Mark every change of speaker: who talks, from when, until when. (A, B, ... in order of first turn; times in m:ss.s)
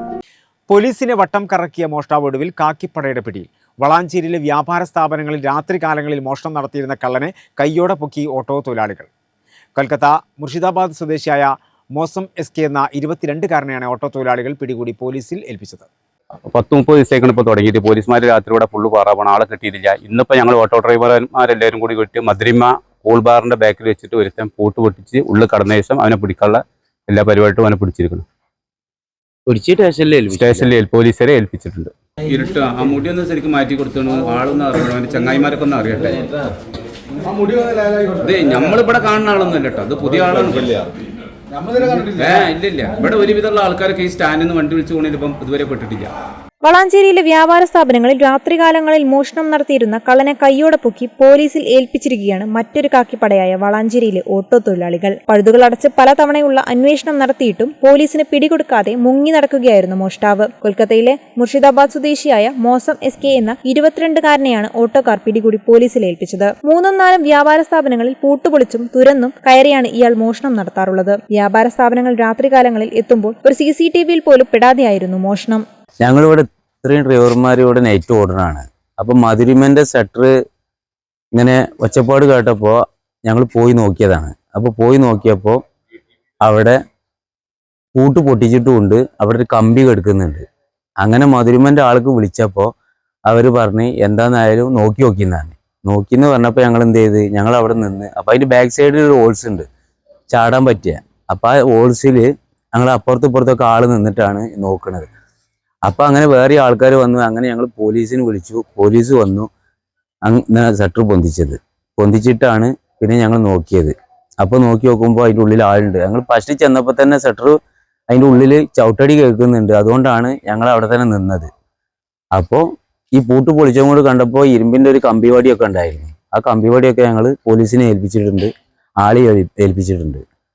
0:00.7-0:09.1 A
0:09.8-0:15.9 A
0:16.4-0:28.2 B
0:29.5-0:30.7 C
0:30.3-0:36.3 B
0:38.2-0:40.8 B
0:42.0-0:46.1 B
0:46.6-1:15.6 D
1:16.0-1:20.3 C
1:21.3-1:25.6 C
1:26.4-1:26.8 C
1:28.0-1:30.4 C
1:31.0-1:32.7 C
1:33.3-1:39.6 C
1:40.3-1:45.1 C
1:45.8-1:49.5 C
1:50.2-1:57.6 C
1:58.1-2:01.5 C
2:02.4-2:10.2 C